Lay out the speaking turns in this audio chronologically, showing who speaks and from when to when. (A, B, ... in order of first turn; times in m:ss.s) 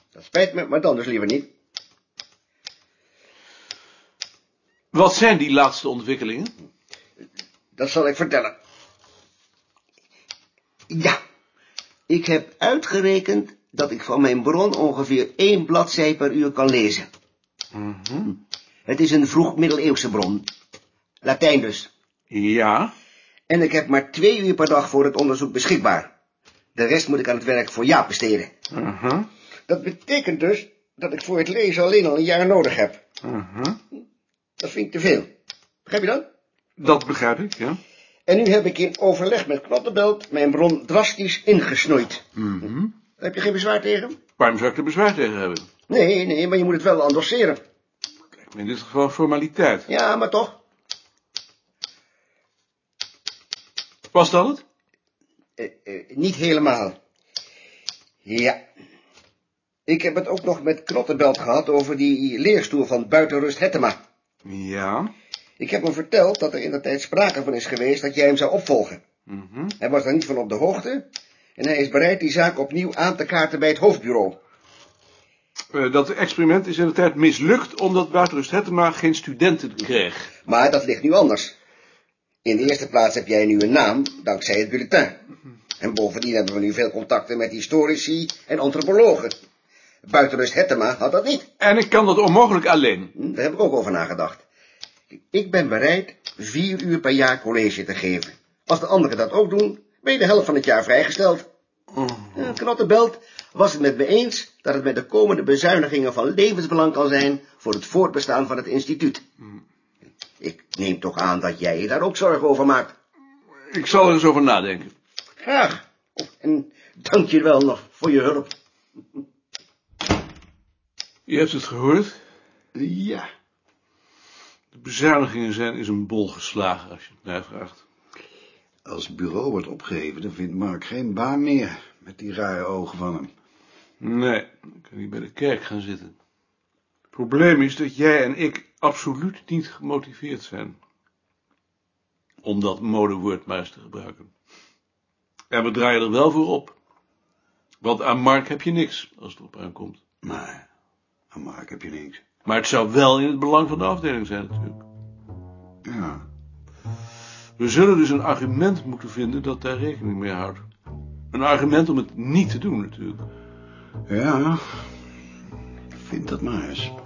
0:00.2-0:01.5 A
0:04.9-0:06.5 B
0:07.8-0:08.6 A
0:10.9-0:11.2 A
0:12.1-0:17.1 A
0:17.8-0:18.4 B
0:18.9-0:20.5 A
0:21.2-0:21.9 A
0:22.3-0:22.9 B
0:23.5-0:26.1 A
0:26.8-0:28.5 A
0:28.7-0:29.3 B
0:29.7-0:33.0 A
0:33.2-0:33.8 B
0:34.6-0:35.3 A
0:35.9-0:36.3 A
0:36.8-0:37.8 B
0:38.3-0:42.2 A
0:42.4-0:42.9 B
0:43.2-0:44.2 A
0:44.4-0:45.7 B
0:45.9-0:47.6 A
0:48.5-0:49.9 B
0:49.9-0:50.6 A
0:54.1-0:54.6 B
0:55.6-0:57.0 A
0:58.2-0:58.6 A
0:59.9-1:04.0 A
1:04.4-1:05.1 B
1:05.6-1:09.0 A
1:09.3-1:09.7 B
1:09.8-1:14.4 A
1:15.7-1:20.3 B
1:20.4-1:21.6 A
1:22.4-1:25.2 A
1:25.8-1:29.4 A
1:30.1-1:31.5 A
1:31.6-1:33.1 B
1:33.2-1:34.4 A
1:35.3-1:41.5 A
1:42.3-1:49.2 A
1:50.4-1:52.9 A
1:53.7-1:54.9 B
1:55.4-1:58.5 A
2:01.3-2:02.2 B
2:02.8-2:03.2 A
2:04.7-2:07.8 B
2:08.9-2:13.3 C
2:14.0-2:16.2 B
2:17.1-2:20.8 B
2:22.4-2:24.3 B
2:25.5-2:26.7 B
2:27.8-2:30.0 B
2:30.2-2:30.6 C
2:31.3-2:32.2 C
2:32.4-2:34.8 B
2:35.8-2:36.2 C
2:37.6-2:40.6 B
2:41.3-2:43.2 B
2:44.1-2:44.9 C
2:46.0-2:46.9 C